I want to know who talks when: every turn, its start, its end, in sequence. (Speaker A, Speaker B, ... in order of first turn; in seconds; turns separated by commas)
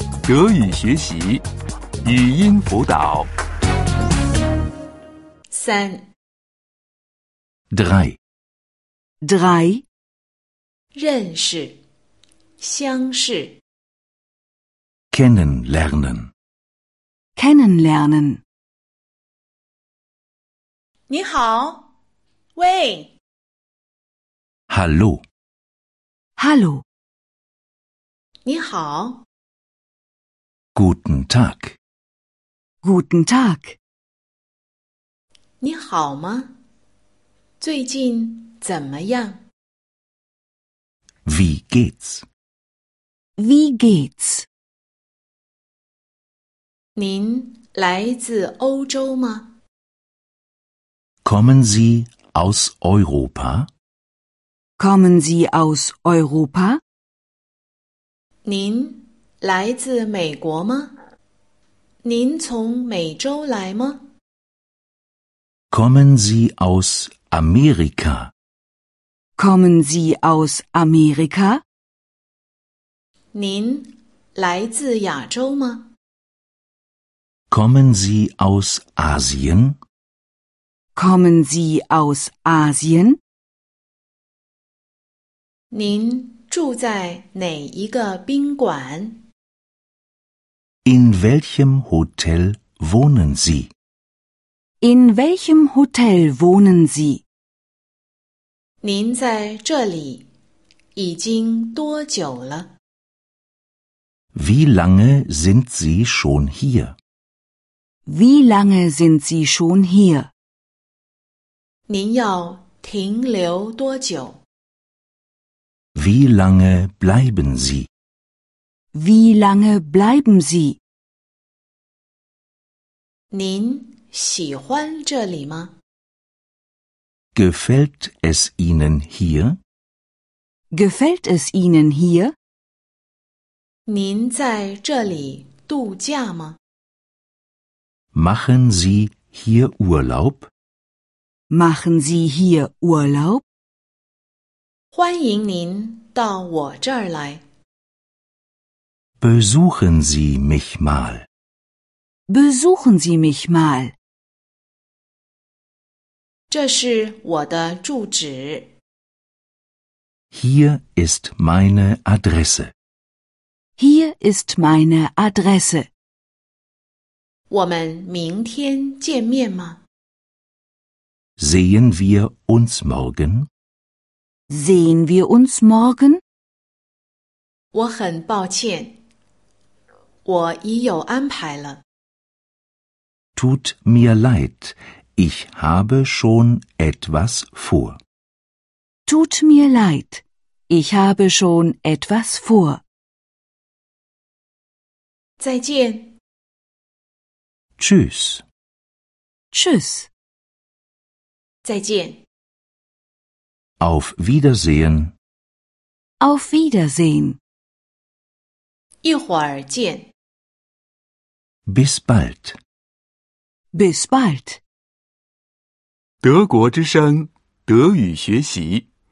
Speaker A: 0.3-1.4, Speaker A: 2.0-3.3, Speaker B: 5.5-6.1, Speaker C: 7.7-8.2, Speaker D: 9.2-9.8, Speaker B: 10.9-11.8, Speaker B: 12.6-13.6, Speaker C: 15.1-16.3, Speaker D: 17.4-18.4, Speaker B: 21.1-21.9, Speaker B: 22.6-23.1, Speaker C: 24.7-25.2, Speaker D: 26.4-26.8, Speaker B: 28.5-29.2, Speaker C: 30.8-31.8, Speaker D: 32.8-33.8, Speaker B: 35.6-36.5, Speaker B: 37.6-39.4, Speaker C: 41.3-42.2, Speaker D: 43.4-44.5, Speaker B: 47.0-49.5, Speaker C: 51.2-53.7, Speaker D: 54.8-56.8, Speaker B: 58.5-61.0, Speaker B: 62.0-64.1, Speaker C: 65.7-68.3, Speaker D: 69.4-71.6, Speaker B: 73.3-75.9, Speaker C: 77.5-79.8, Speaker D: 81.0-83.2, Speaker B: 85.7-89.2, Speaker C: 90.8-93.7, Speaker D: 94.8-97.2, Speaker B: 98.8-100.3, Speaker B: 101.0-102.7, Speaker C: 104.3-107.0, Speaker D: 108.1-110.3, Speaker B: 111.9-114.4, Speaker C: 116.0-117.9, Speaker D: 118.9-120.8, Speaker B: 123.3-125.7, Speaker C: 127.3-129.6, Speaker D: 130.7-132.3, Speaker B: 133.9-136.6, Speaker C: 138.1-140.5, Speaker D: 141.5-143.4, Speaker B: 144.9-147.4, Speaker C: 149.2-151.3, Speaker D: 152.3-153.9, Speaker B: 156.5-158.7, Speaker C: 160.3-162.7, Speaker D: 163.8-165.9, Speaker B: 167.5-169.8, Speaker C: 171.4-173.5, Speaker D: 174.5-176.2, Speaker B: 177.7-179.0, Speaker B: 180.2-181.8, Speaker C: 183.4-188.0, Speaker D: 189.1-192.8, Speaker B: 195.4-196.1, Speaker C: 197.8-198.4, Speaker D: 199.5-200.1, Speaker B: 201.7-202.2, Speaker C: 203.8-205.1, Speaker D: 206.2-207.4, Speaker B: 209.0-210.1, Speaker C: 211.7-212.6, Speaker D: 213.7-214.6, Speaker A: 216.2-218.8